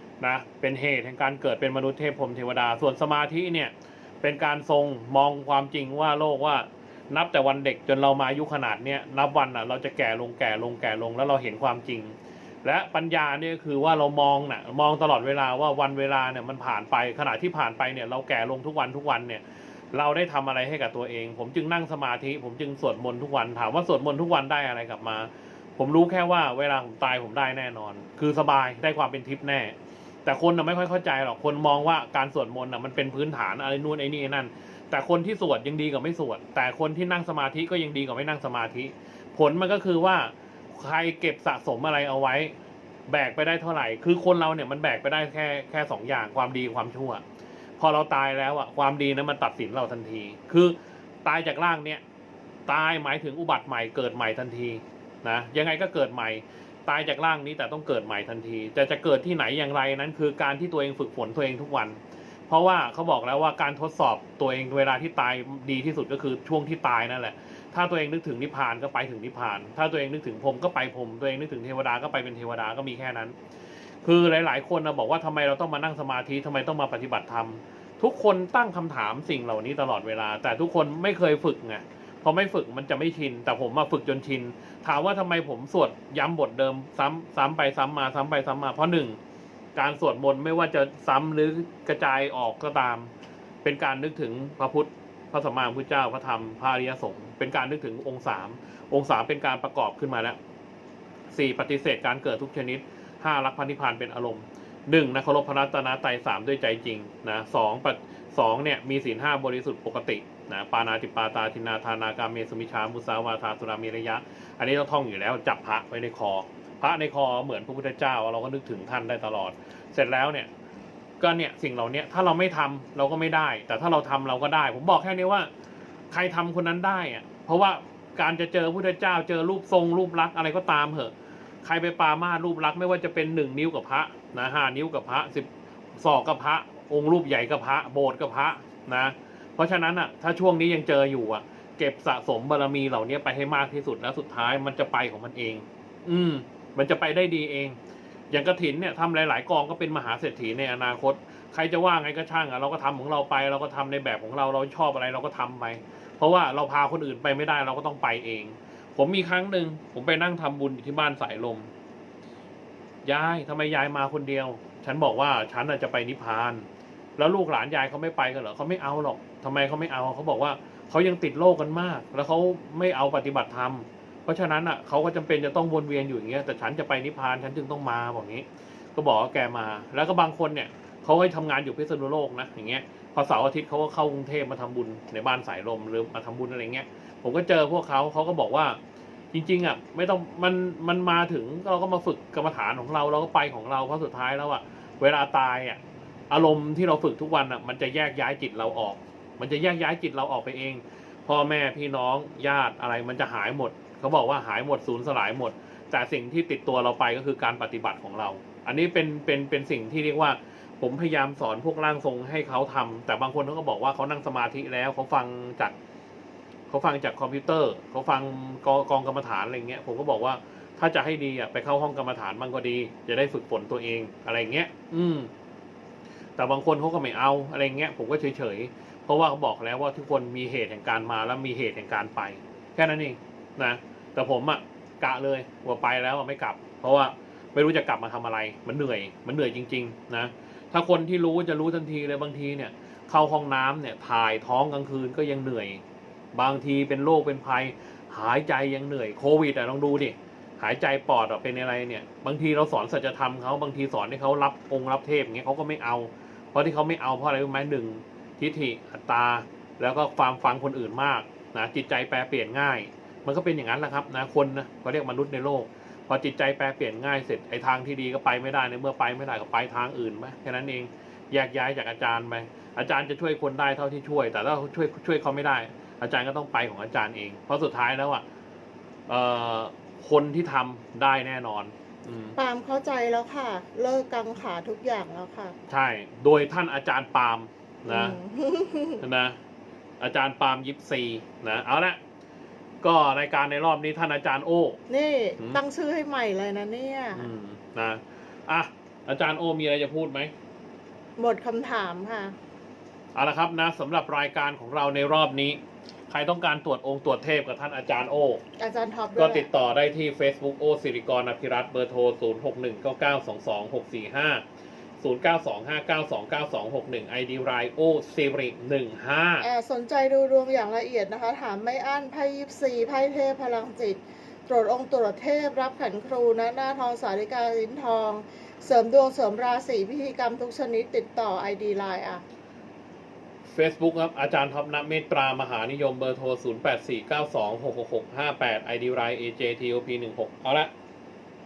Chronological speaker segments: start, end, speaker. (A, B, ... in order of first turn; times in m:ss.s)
0:00.2-0:42.5 A
0:43.1-0:47.2 A
0:47.8-0:52.0 A
0:52.7-1:13.4 A
1:14.0-1:29.2 A
1:29.8-1:33.1 A
1:33.6-1:40.4 A
1:41.3-2:00.5 A
2:01.2-2:05.5 A
2:06.1-2:11.1 A
2:11.6-2:27.8 A
2:28.3-2:41.7 A
2:43.0-3:08.8 A
3:09.3-3:35.7 A
3:36.7-3:45.3 A
3:46.4-4:05.8 A
4:06.3-4:38.2 A
4:39.1-4:42.4 A
4:42.4-4:45.6 B
4:45.7-4:48.2 A
4:47.9-4:49.0 B
4:49.0-4:49.4 A
4:50.0-4:52.0 A
4:52.8-4:54.8 A
4:54.9-4:57.3 B
4:57.1-5:00.3 A
5:01.2-5:02.4 B
5:03.2-5:08.4 A
5:08.6-5:09.5 B
5:09.2-5:14.4 A
5:15.0-5:19.5 A
5:19.4-5:32.2 B
5:33.5-5:40.7 A